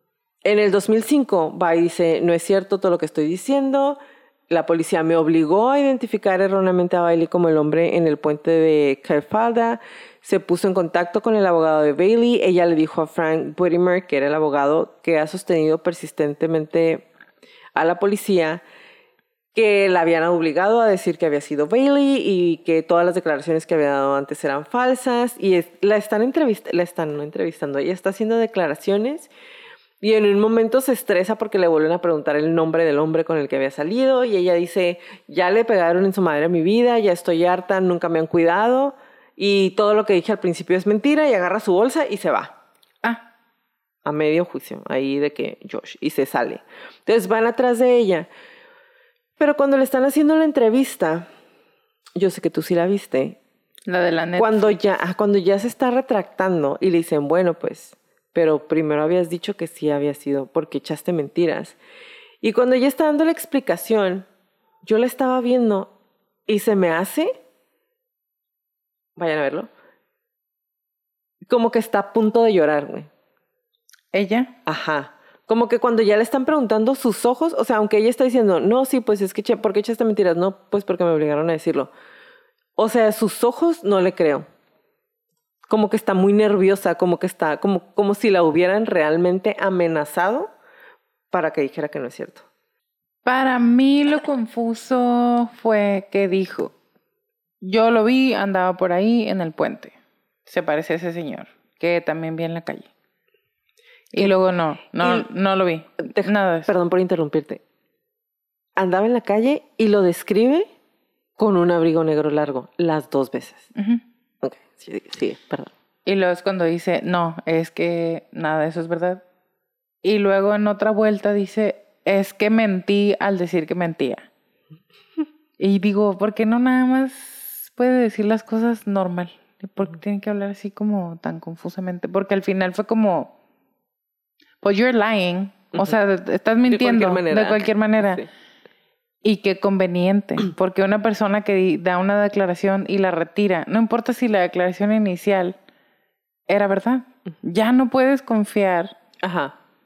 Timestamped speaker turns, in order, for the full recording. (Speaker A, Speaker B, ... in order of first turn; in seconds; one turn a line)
Speaker A: 0.5-4.0
Speaker A: 4.5-17.1
Speaker A: 17.8-18.6
Speaker A: 19.6-29.3
Speaker A: 30.0-42.5
Speaker A: 44.0-48.3
Speaker A: 49.4-51.3
Speaker A: 52.2-53.4
Speaker B: 53.9-54.8
Speaker A: 54.4-61.8
Speaker A: 62.4-64.3
Speaker A: 64.8-65.9
Speaker A: 66.5-67.3
Speaker A: 69.2-69.7
Speaker A: 71.5-73.1
Speaker B: 74.1-74.5
Speaker A: 74.7-81.9
Speaker A: 82.8-84.5
Speaker A: 85.7-90.5
Speaker A: 91.3-92.5
Speaker B: 93.2-96.7
Speaker B: 97.6-100.0
Speaker B: 100.5-102.9
Speaker B: 104.1-106.7
Speaker A: 105.0-105.3
Speaker A: 106.0-107.6
Speaker A: 108.8-110.7
Speaker A: 111.4-113.7
Speaker B: 113.8-114.0
Speaker A: 114.4-115.7
Speaker B: 116.1-119.2
Speaker B: 120.0-124.3
Speaker B: 125.6-133.3
Speaker B: 134.6-138.2
Speaker A: 136.7-138.3
Speaker B: 139.2-145.6
Speaker B: 146.5-148.9
Speaker A: 149.2-149.6